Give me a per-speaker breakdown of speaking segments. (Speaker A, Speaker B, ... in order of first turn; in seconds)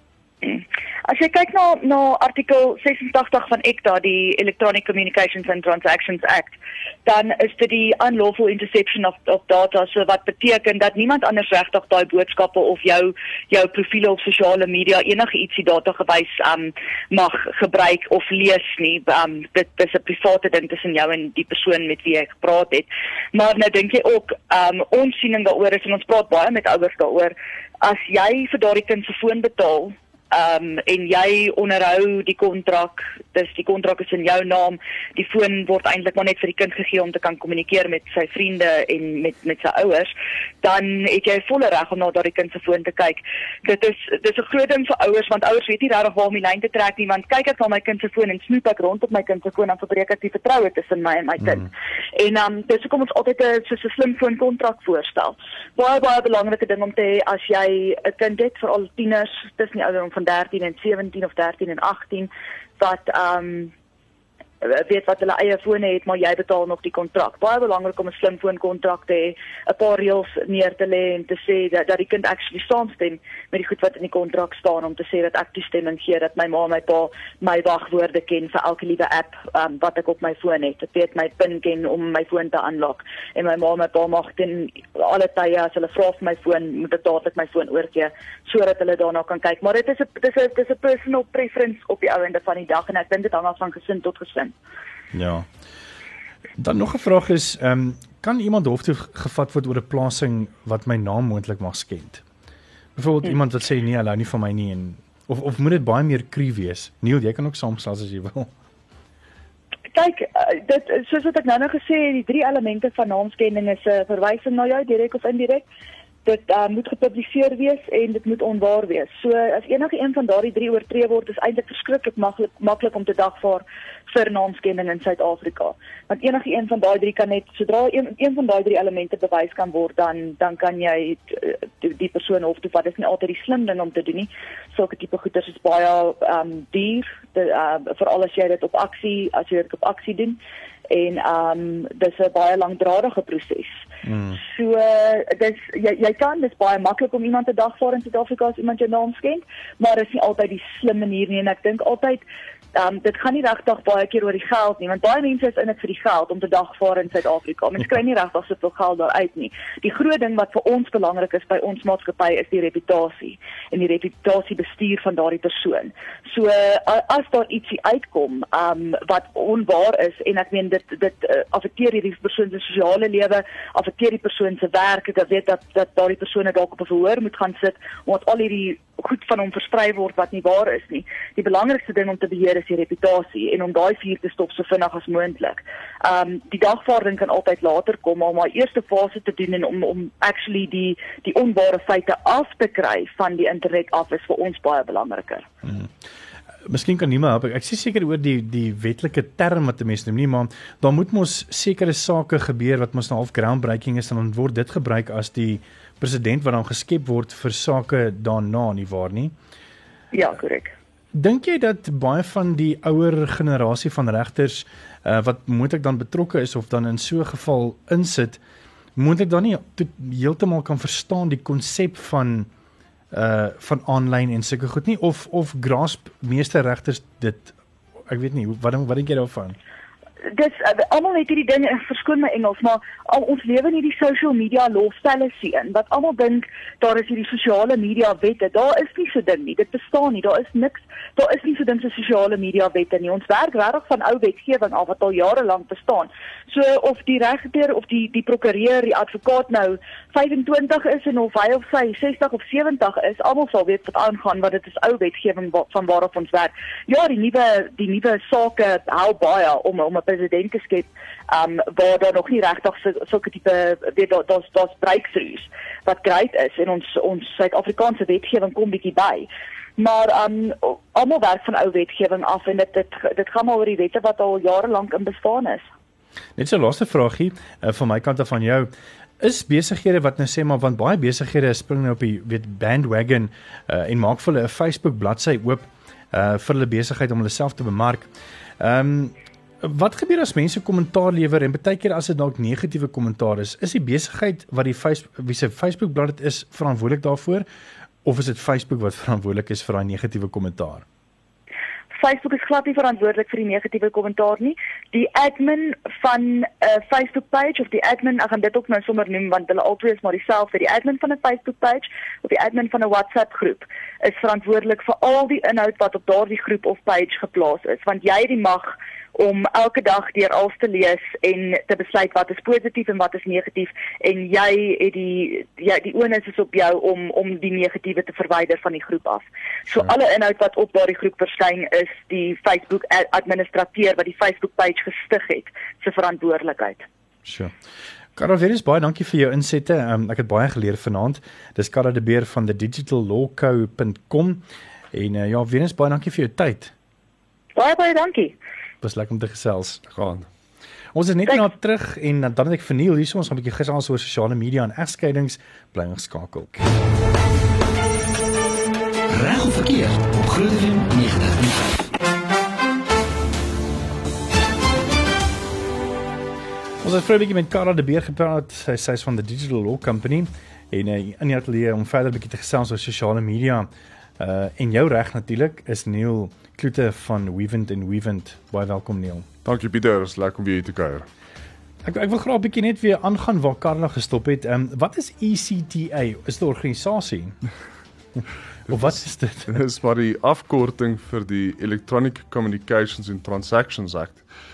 Speaker A: 0.4-6.5, 7.1-63.7, 64.6-94.5, 109.9-115.7, 116.2-143.8, 144.4-152.2, 152.7-195.5, 210.1-210.7, 230.3-275.6, 302.0-336.9, 347.6-348.4
Speaker B: 95.1-95.5, 96.6-102.2, 103.0-108.5, 144.1-144.4, 195.6-195.9, 196.7-209.3, 211.1-218.4, 219.0-222.5, 223.1-227.5, 228.1-229.6, 276.4-288.1, 288.6-297.5, 298.0-300.9, 337.3-337.5, 338.2-346.7, 348.8-349.8, 350.9-356.7, 366.8-379.3, 381.9-387.4, 388.7-389.6
Speaker C: 349.9-350.3, 379.4-381.1, 388.7-394.2
Speaker D: 359.1-361.9